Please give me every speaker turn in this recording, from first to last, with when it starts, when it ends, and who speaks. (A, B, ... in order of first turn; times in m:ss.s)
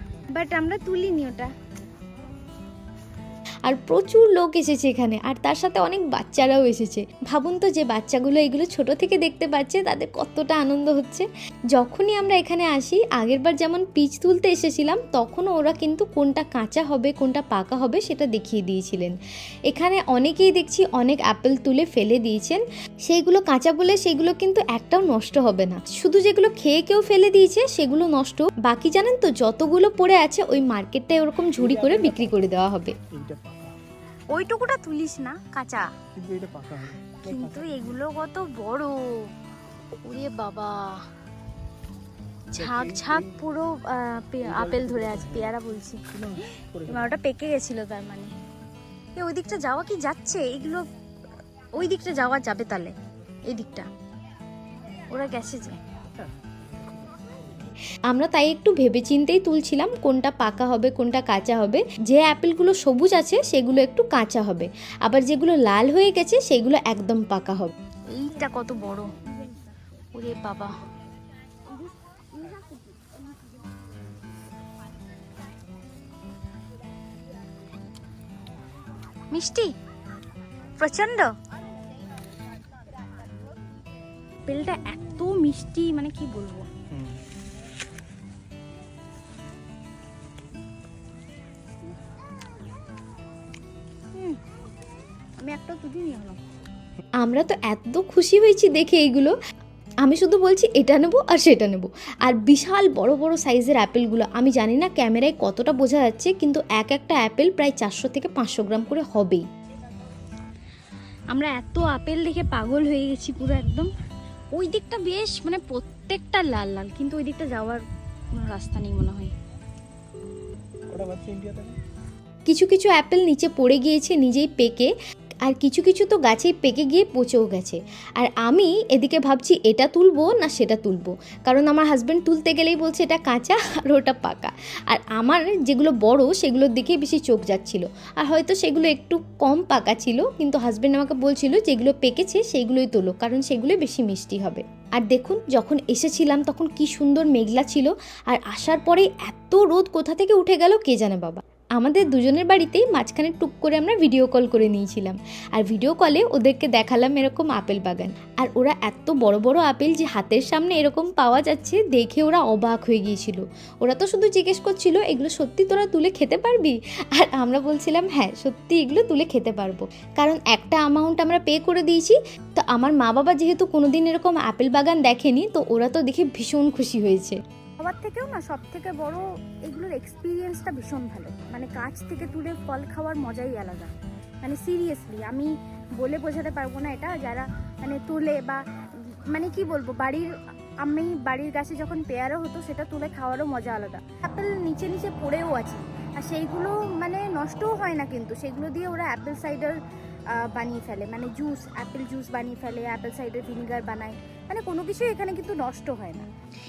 0:00.3-0:01.5 A
0:03.6-0:19.1 B
0:19.7-0:32.9 B
0:31.5-0:32.4 C
0:33.1-0:33.7 C
0:34.3-0:35.9 A
0:36.1-0:38.0 C
0:37.2-0:39.3 A
0:40.0-0:41.0 A
0:42.5-0:43.3 C
0:42.5-0:46.0 A
0:44.4-0:45.6 C
0:46.1-0:47.2 C
0:46.9-0:48.3 A
0:49.2-0:50.8 A
0:51.7-0:52.9 A
0:53.5-0:53.8 A
0:55.1-0:55.8 A
0:56.2-0:57.7 C
0:58.1-1:07.7 B
1:08.1-1:09.1 A
1:10.2-1:10.7 A
1:12.5-1:12.8 A
1:19.3-1:19.7 A
1:20.8-1:21.3 A
1:24.4-1:26.7 A
1:26.9-1:27.2 C
1:35.4-1:36.4 A
1:37.2-1:39.3 B
1:40.0-1:49.4 B
1:51.3-1:53.9 A
1:54.5-1:57.8 A
1:58.3-1:59.3 A
2:00.9-2:01.8 C
2:02.5-2:04.9 B
2:05.4-2:57.4 B
2:57.8-3:03.9 A
3:04.4-3:08.6 A
3:09.1-3:10.3 A
3:10.8-3:19.8 A
3:20.3-3:26.3 A